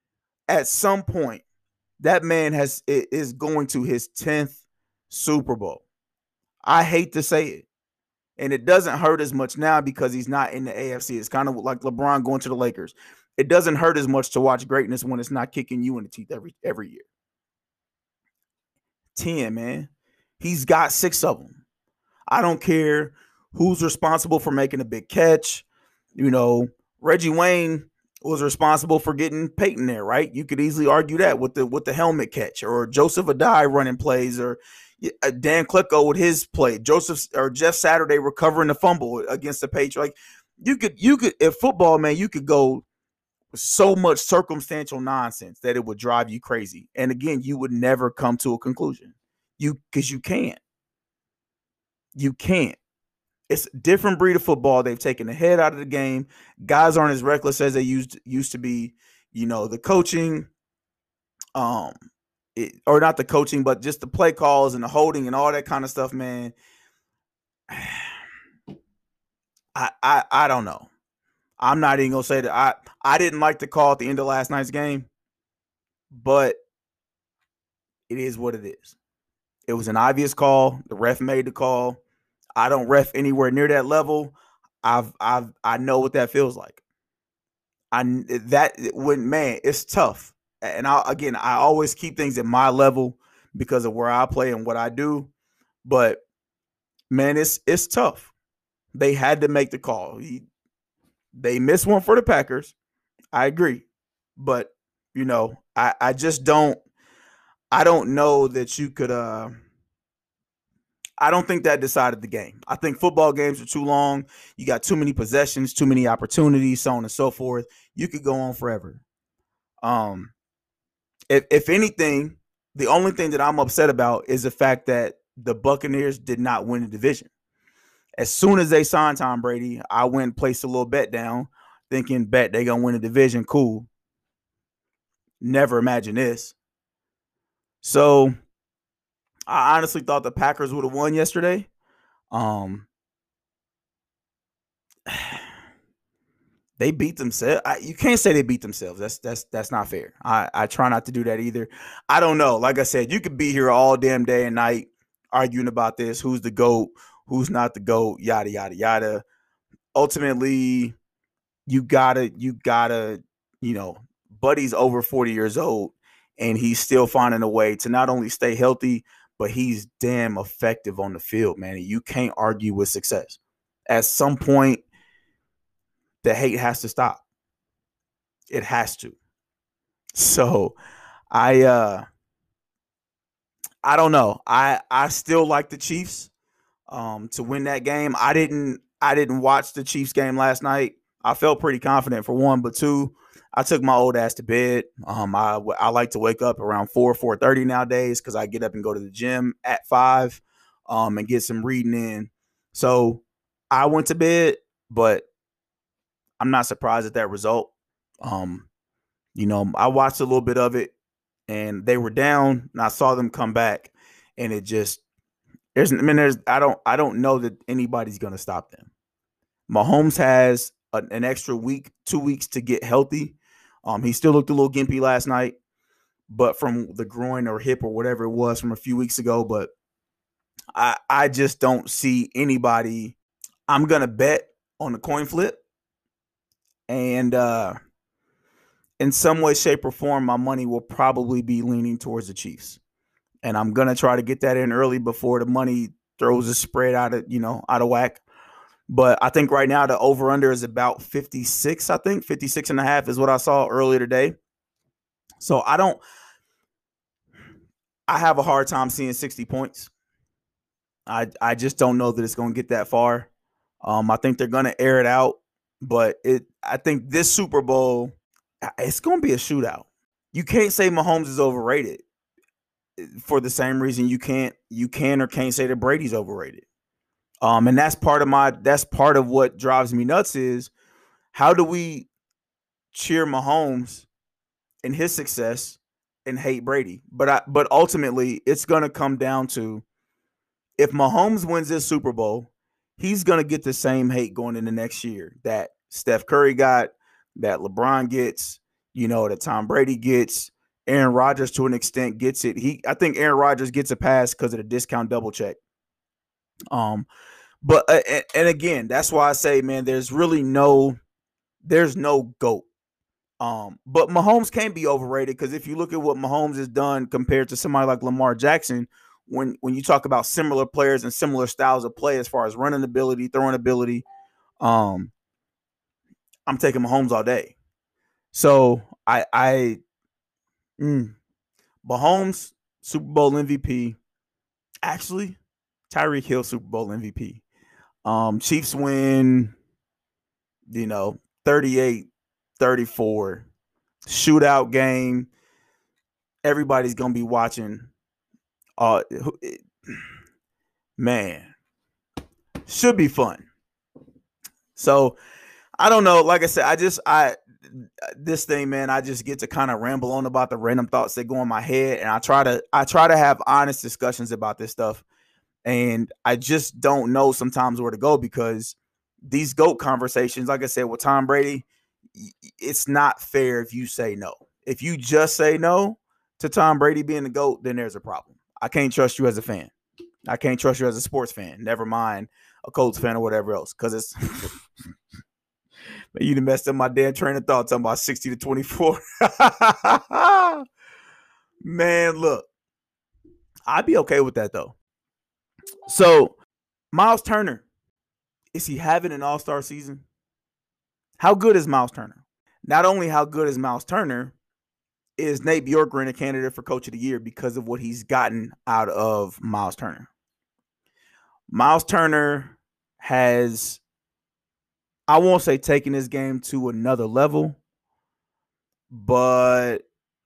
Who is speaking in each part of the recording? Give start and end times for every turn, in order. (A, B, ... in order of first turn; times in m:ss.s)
0:00.5-0:01.4 A
0:02.0-0:04.6 A
0:05.1-0:05.8 A
0:06.6-0:07.7 A
0:08.4-0:17.0 A
0:19.2-0:19.9 A
0:20.4-0:21.6 A
0:22.3-0:25.6 A
0:26.2-0:42.8 A
0:43.5-0:50.6 A
0:52.2-0:52.8 A
0:53.5-1:00.5 A
1:01.6-1:02.0 A
1:02.6-1:06.5 A
1:07.7-1:08.1 A
1:09.8-1:10.9 A
1:11.6-1:15.1 A
1:16.1-1:16.6 A
1:18.1-1:19.0 A
1:19.7-1:22.0 A
1:22.6-1:26.8 A
1:27.9-1:35.3 A
1:35.8-1:36.2 A
1:37.1-1:38.3 A
1:38.9-1:40.5 A
1:41.4-1:42.8 A
1:43.3-1:43.8 A
1:44.4-1:46.8 A
1:47.7-1:49.5 A
1:51.2-1:59.0 A
1:59.8-2:00.3 A
2:01.3-2:07.3 A
2:08.2-2:13.9 A
2:15.4-2:16.6 A
2:17.8-2:18.3 A
2:19.5-2:21.7 A
2:22.3-2:22.9 A
2:25.1-2:25.4 A
2:26.8-2:39.2 A
2:40.0-2:41.0 A
2:41.7-2:54.8 A
2:56.2-2:57.2 A
2:58.5-2:59.2 A
3:00.2-3:00.8 A
3:01.3-3:02.0 A
3:03.8-3:06.3 A
3:06.9-3:25.3 A
3:26.4-3:27.7 A
3:28.2-3:28.7 A
3:29.4-3:30.9 A
3:31.5-3:35.0 A
3:35.8-3:38.9 A
3:39.7-3:45.6 A
3:46.3-3:49.7 A
3:50.8-3:53.2 A
3:53.7-3:55.6 A
3:56.9-3:57.8 A
3:59.0-4:02.8 A
4:03.4-4:08.2 A
4:08.9-4:14.4 A
4:15.4-4:16.0 A
4:18.1-4:19.9 A
4:21.1-4:23.3 A
4:23.8-4:28.1 A
4:28.8-4:32.0 A
4:33.0-4:36.6 A
4:37.4-4:40.7 A
4:41.3-4:42.1 A
4:42.9-4:44.1 A
4:44.8-4:49.8 A
4:50.8-5:05.6 A
5:06.7-5:07.1 A
5:07.6-5:11.0 A
5:11.6-5:12.7 A
5:13.4-5:24.0 A
5:24.6-5:25.1 A
5:26.5-5:27.6 A
5:28.3-5:29.8 A
5:30.8-5:31.2 A
5:31.8-5:34.0 A
5:34.8-5:35.4 A
5:35.9-5:37.4 A
5:38.0-5:39.5 A
5:40.7-5:42.1 A
5:42.6-5:43.5 A
5:44.1-5:45.3 A
5:46.4-5:47.9 A
5:48.8-5:49.6 A
5:51.0-5:51.5 A
5:52.7-5:53.4 A
5:54.8-5:55.2 A
5:55.8-6:05.0 A
6:05.6-6:11.6 A
6:12.2-6:19.7 A
6:20.3-6:24.6 A
6:26.2-6:30.6 A
6:31.6-6:32.5 A
6:33.7-6:34.8 A
6:35.9-6:36.4 A
6:36.9-6:37.6 A
6:38.5-6:40.0 A
6:41.2-6:44.3 A
6:45.2-6:50.1 A
6:51.5-6:53.8 A
6:55.1-6:57.6 A
6:58.9-6:59.8 A